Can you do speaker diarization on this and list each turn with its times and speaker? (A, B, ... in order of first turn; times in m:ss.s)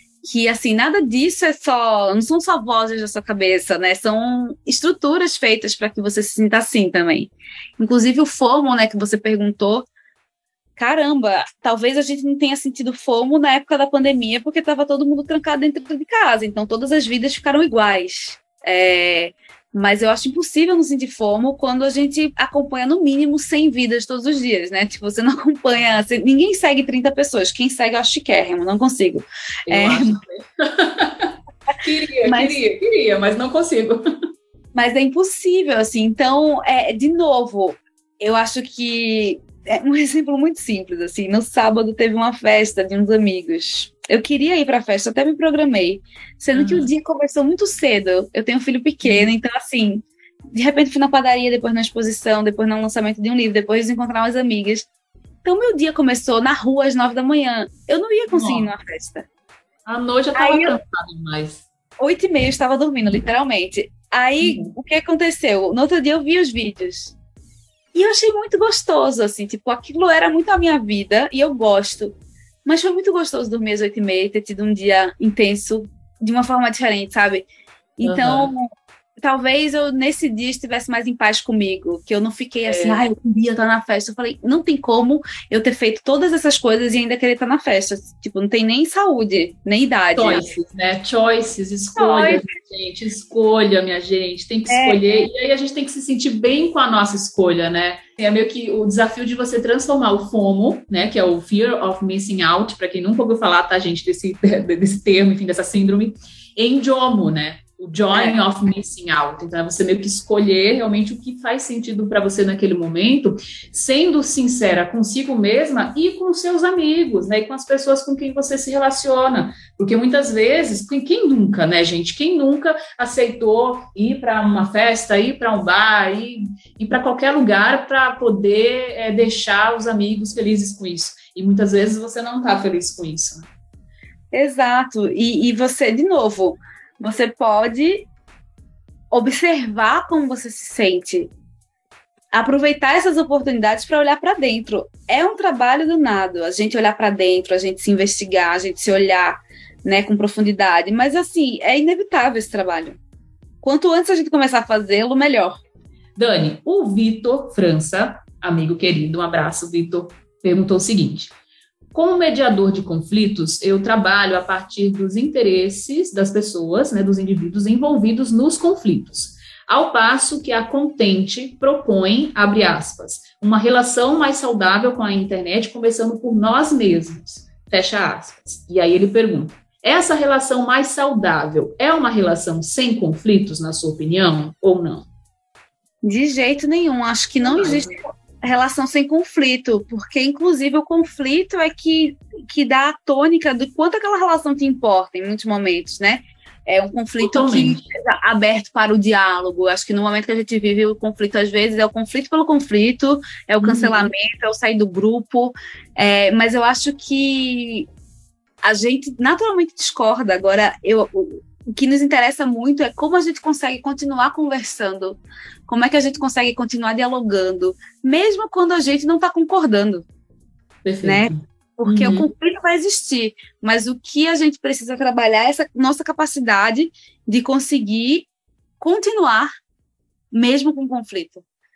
0:00.2-0:09.9 A
0:10.8-0:30.2 A
0:29.7-0:34.0 B
0:32.2-0:32.6 A
0:34.7-0:54.9 A
0:46.5-0:46.9 B
0:49.0-0:49.3 B
0:55.4-0:59.3 A
0:58.3-0:58.7 B
0:59.8-1:01.6 B
1:00.3-1:00.8 A
1:02.0-1:07.1 A
1:04.4-1:04.7 B
1:07.9-1:17.4 A
1:18.0-1:30.5 A
1:18.0-1:18.5 B
1:22.6-1:23.0 B
1:30.2-2:13.5 B
1:31.9-1:32.4 A
1:34.7-1:35.0 A
2:14.3-2:18.1 A
2:19.1-2:21.3 A
2:22.3-2:33.0 A
2:33.6-2:35.6 A
2:36.2-2:41.3 B
2:41.9-3:05.1 B
3:06.0-3:27.9 A
3:07.4-3:08.0 B
3:17.2-3:17.8 B
3:23.6-3:24.1 B
3:28.6-3:40.0 A
3:40.8-3:42.3 B
3:41.0-3:48.3 A
3:48.8-3:49.5 A
3:50.3-3:51.4 A